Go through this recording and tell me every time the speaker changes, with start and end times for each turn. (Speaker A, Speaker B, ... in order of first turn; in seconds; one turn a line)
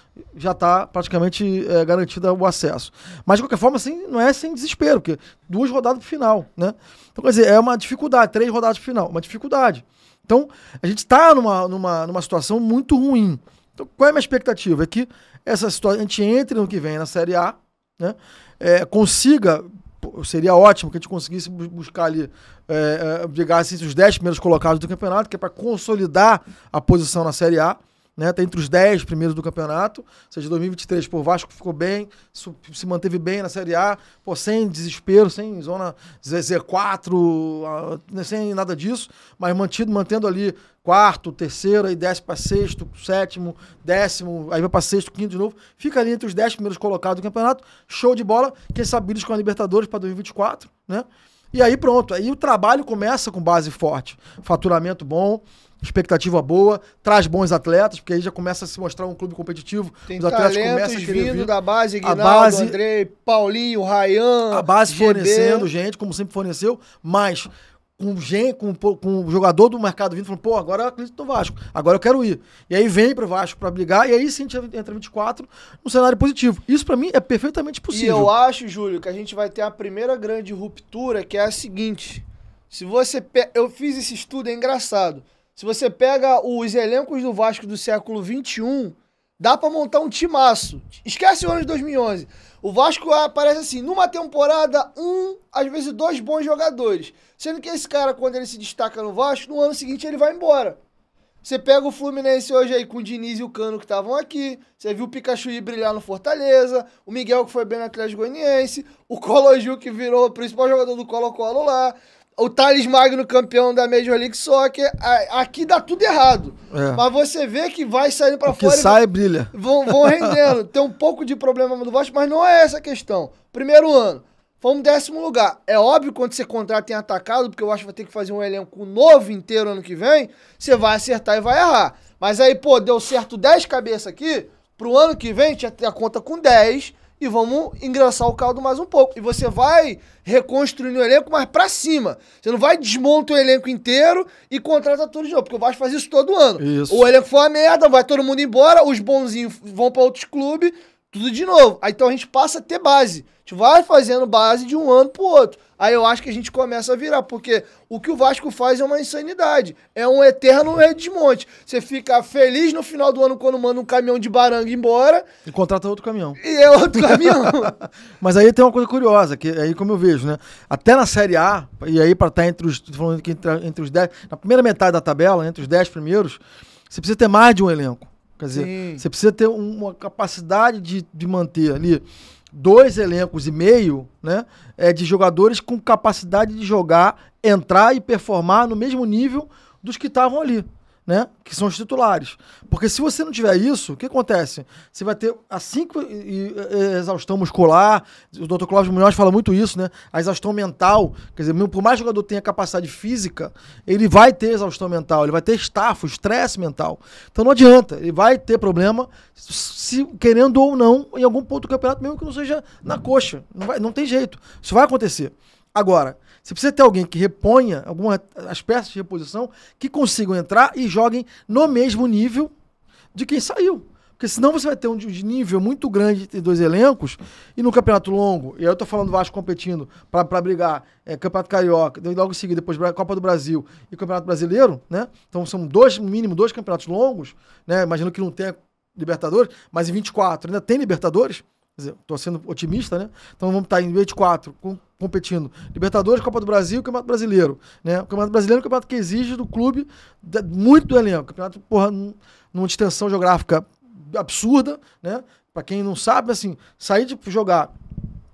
Speaker A: 0.3-62.8
Speaker B: 60.1-65.7
Speaker A: 64.5-78.3
Speaker B: 77.9-100.8
Speaker B: 101.4-119.0
Speaker A: 116.7-117.0
Speaker A: 118.5-120.5
Speaker B: 119.5-165.3
Speaker A: 146.6-147.1
Speaker A: 165.5-166.4
Speaker B: 166.4-167.7
Speaker A: 167.0-222.5
Speaker B: 178.5-179.0
Speaker A: 223.1-257.7